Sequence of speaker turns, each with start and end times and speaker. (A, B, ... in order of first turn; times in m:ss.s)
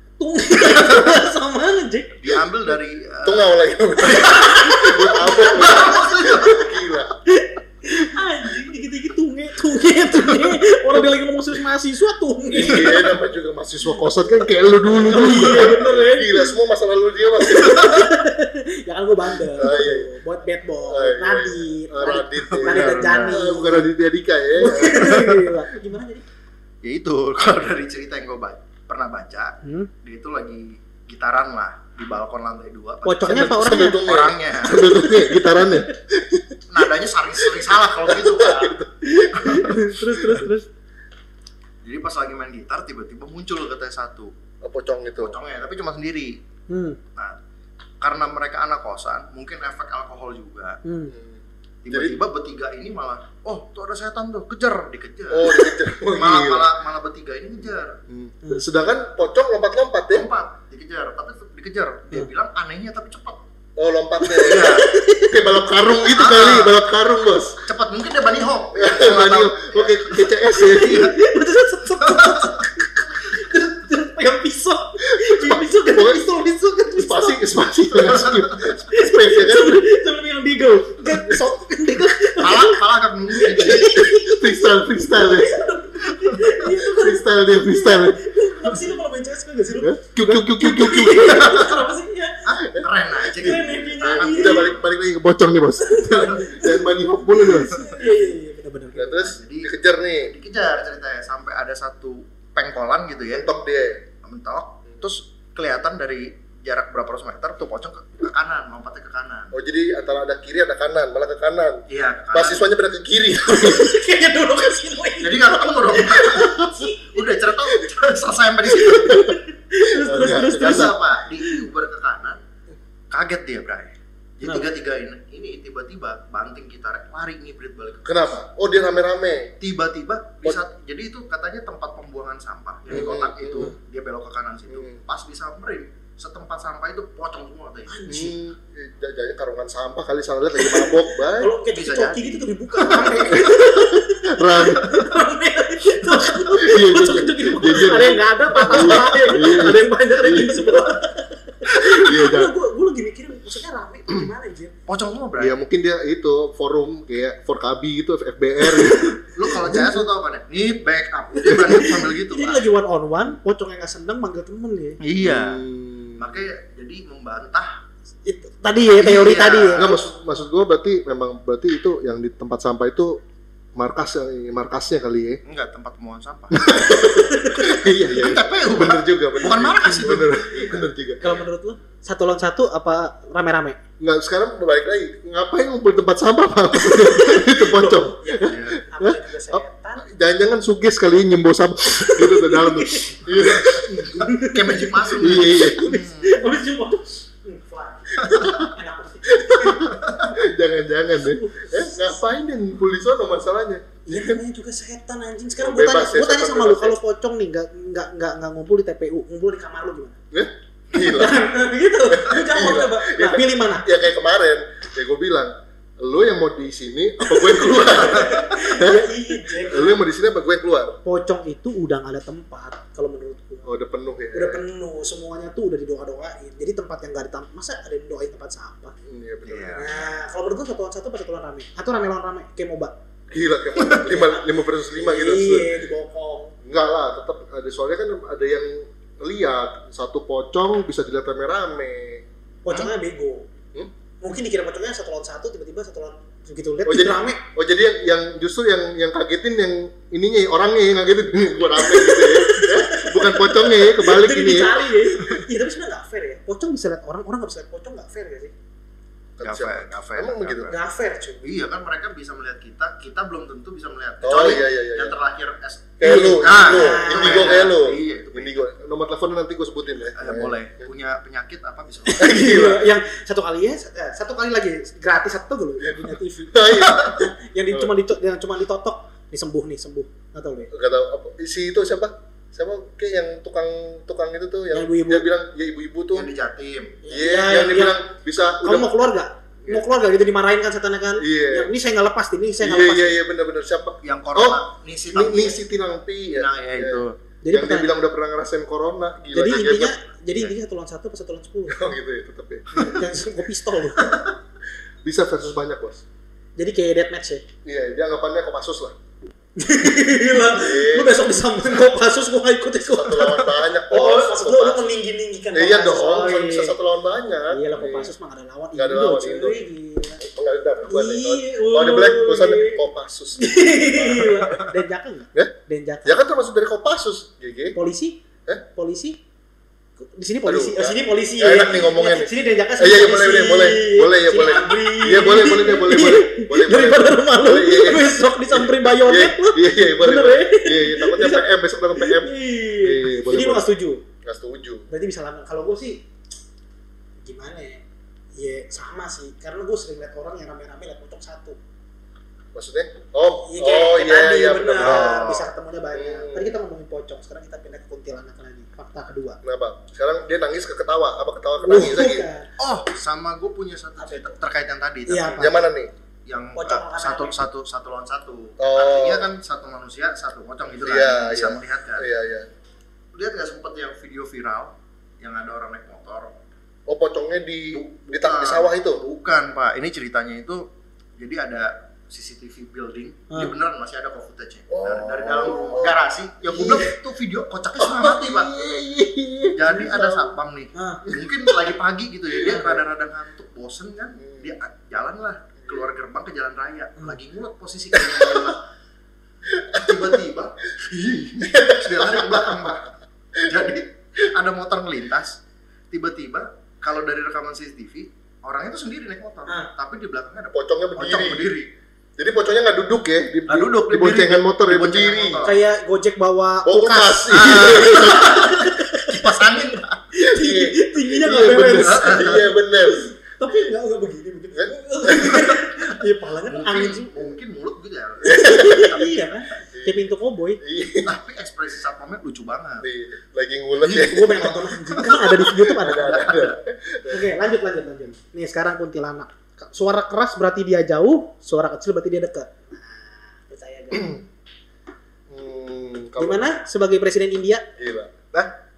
0:00.2-0:02.3 A
0:02.2-0:04.6 B
0:03.2-0:07.2 C
0:04.0-0:06.4 A
0:05.4-0:06.6 B
0:07.3-0:13.2 A
0:12.5-0:18.0 C
0:14.9-0:16.5 A
0:17.4-0:23.9 A
0:19.5-0:20.1 C
0:20.9-0:25.4 C
0:22.4-0:23.6 B
0:24.6-0:26.2 A
0:25.1-0:25.4 B
0:26.8-0:35.1 B
0:29.6-0:29.9 A
0:33.0-0:34.0 A
0:33.2-0:36.6 C
0:35.0-0:35.8 A
0:36.7-0:38.8 B
0:37.5-0:40.4 C
0:39.1-0:40.7 A
0:41.8-0:44.3 B
0:44.6-0:45.4 C
0:45.2-0:46.4 B
0:46.7-0:47.0 A
0:48.0-0:50.8 B
0:50.8-0:51.1 A
0:51.1-0:52.2 C
0:51.8-0:58.0 B
0:55.3-0:56.7 C
0:58.1-1:00.3 C
1:00.1-1:03.4 B
1:03.8-1:07.6 C
1:04.3-1:05.4 A
1:04.4-1:04.9 B
1:06.1-1:06.8 B
1:07.6-1:11.2 B
1:08.7-1:11.1 C
1:10.5-1:17.5 A
1:12.0-1:12.6 B
1:15.0-1:19.9 C
1:17.9-1:18.8 B
1:18.9-1:32.4 A
1:22.4-1:24.0 B
1:23.6-1:25.6 C
1:26.7-1:28.9 C
1:29.8-1:31.6 C
1:31.2-1:31.8 B
1:32.4-1:34.8 B
1:32.6-1:37.9 C
1:33.3-1:34.7 A
1:35.8-1:39.3 A
1:38.9-1:40.3 C
1:39.2-1:43.5 B
1:43.3-1:44.0 C
1:44.2-1:49.5 B
1:49.5-1:53.9 C
1:51.9-1:52.7 B
1:53.4-1:57.3 A
1:55.2-1:59.3 B
1:58.8-2:01.6 A
1:59.0-2:00.9 C
2:00.1-2:02.4 B
2:03.1-2:08.1 B
2:04.4-2:04.7 A
2:08.0-2:09.5 C
2:09.6-2:18.0 B
2:12.9-2:13.7 C
2:14.7-2:15.0 C
2:17.9-2:18.4 A
2:18.1-2:21.5 C
2:20.6-2:34.7 A
2:21.7-2:23.7 B
2:23.2-2:25.1 C
2:26.5-2:30.7 C
2:28.6-2:29.2 B
2:31.6-2:32.5 C
2:34.9-2:35.6 B
2:35.4-2:40.0 C
2:38.7-2:39.1 A
2:39.3-2:42.7 B
2:41.4-2:45.0 A
2:45.0-2:45.6 B
2:45.2-2:46.4 C
2:46.2-2:47.8 B
2:48.2-2:49.9 A
2:49.0-2:50.0 B
2:49.7-2:53.2 C
2:53.8-2:55.4 C
2:55.4-2:56.9 B
2:56.5-3:01.2 C
2:57.8-3:00.9 B
3:01.2-3:03.8 A
3:04.0-3:14.2 C
3:06.8-3:10.1 A
3:08.4-3:08.8 B
3:11.9-3:19.9 A
3:14.1-3:16.5 B
3:15.2-3:15.9 C
3:18.2-3:18.7 C
3:18.2-3:18.6 B
3:19.3-3:24.4 C
3:19.9-3:20.3 B
3:21.2-3:22.2 A
3:24.1-3:30.2 A
3:25.6-3:27.0 C
3:30.3-3:31.4 C
3:31.0-3:33.9 A
3:32.1-3:41.0 C
3:37.2-3:40.0 A
3:41.0-3:43.6 A
3:43.6-3:44.6 C
3:44.3-3:48.9 A
3:49.0-3:49.9 C
3:49.4-3:50.2 B
3:49.8-3:52.9 A
3:53.3-3:55.8 C
3:53.9-3:56.5 A
3:56.6-4:02.2 C
4:02.6-4:03.5 A
4:04.2-4:07.4 A
4:06.8-4:15.4 C
4:11.7-4:18.5 A
4:19.4-4:20.7 C
4:19.4-4:20.8 B
4:20.7-4:21.4 A
4:21.4-4:28.7 B
4:24.2-4:25.2 C
4:26.0-4:30.5 C
4:26.0-4:27.7 A
4:30.1-4:32.3 B
4:32.0-4:40.7 A
4:32.2-4:32.8 C
4:35.8-4:37.9 C
4:40.7-4:46.3 C
4:44.7-4:45.3 A
4:46.1-4:47.0 B
4:47.0-4:48.0 A
4:47.1-4:48.9 C
4:48.6-4:53.2 A
4:51.2-4:51.7 C
4:52.6-4:59.9 C
4:54.0-4:55.6 B
4:56.3-4:57.2 B
4:57.4-4:57.9 A
4:59.3-5:01.8 A
5:01.7-5:03.0 C
5:02.8-5:04.2 A
5:04.0-5:04.3 B
5:05.0-5:06.0 C
5:06.6-5:07.4 A
5:07.6-5:08.9 C
5:09.6-5:16.8 A
5:10.4-5:11.3 C
5:12.8-5:14.9 C
5:15.5-5:18.1 C
5:17.5-5:20.2 A
5:18.7-5:19.6 C
5:20.2-5:24.5 C
5:20.9-5:22.8 A
5:23.4-5:26.2 A
5:26.0-5:27.8 C
5:27.7-5:28.2 A
5:28.7-5:29.2 A
5:30.0-5:44.0 A
5:30.4-5:44.9 C
5:44.9-5:46.0 A
5:47.2-5:47.8 A
5:48.4-5:51.6 A
5:52.5-5:56.5 C
5:53.5-5:59.4 A
5:54.8-5:55.4 B
5:59.4-6:02.3 C
6:01.6-6:02.5 A
6:02.6-6:05.6 B
6:04.0-6:04.3 A
6:05.1-6:05.6 A
6:05.3-6:05.9 C
6:06.2-6:12.1 B
6:06.5-6:07.4 A
6:08.6-6:09.3 C
6:10.8-6:12.5 C
6:13.1-6:16.3 B
6:16.9-6:19.0 C
6:17.7-6:20.6 B
6:21.2-6:28.6 B
6:24.7-6:26.0 C
6:26.6-6:26.8 A
6:27.8-6:30.3 C
6:29.5-6:38.6 B
6:30.7-6:31.0 A
6:32.4-6:32.7 A
6:34.2-6:34.5 C
6:37.9-6:38.5 C
6:39.5-6:40.1 C
6:39.7-6:42.9 B
6:40.9-6:42.7 C
6:43.4-6:43.7 C
6:43.4-6:45.4 B
6:45.9-6:51.7 B
6:50.5-6:51.5 C
6:52.2-6:55.4 C
6:53.5-6:55.6 B
6:55.4-6:58.0 A
6:56.6-6:58.6 C
6:57.3-7:00.0 B
6:58.6-6:59.2 A
7:00.2-7:07.2 A
7:00.2-7:03.7 C
7:01.6-7:02.5 B
7:04.5-7:05.6 C
7:06.5-7:09.4 B
7:08.2-7:10.6 A
7:08.3-7:08.9 C
7:09.7-7:10.0 C
7:10.6-7:11.1 C
7:11.0-7:12.8 B
7:12.8-7:17.3 C
7:13.9-7:16.3 A
7:14.9-7:16.6 B
7:17.1-7:24.2 A
7:23.9-7:24.2 C
7:25.3-7:26.5 C
7:26.2-7:27.7 A
7:27.8-7:28.1 C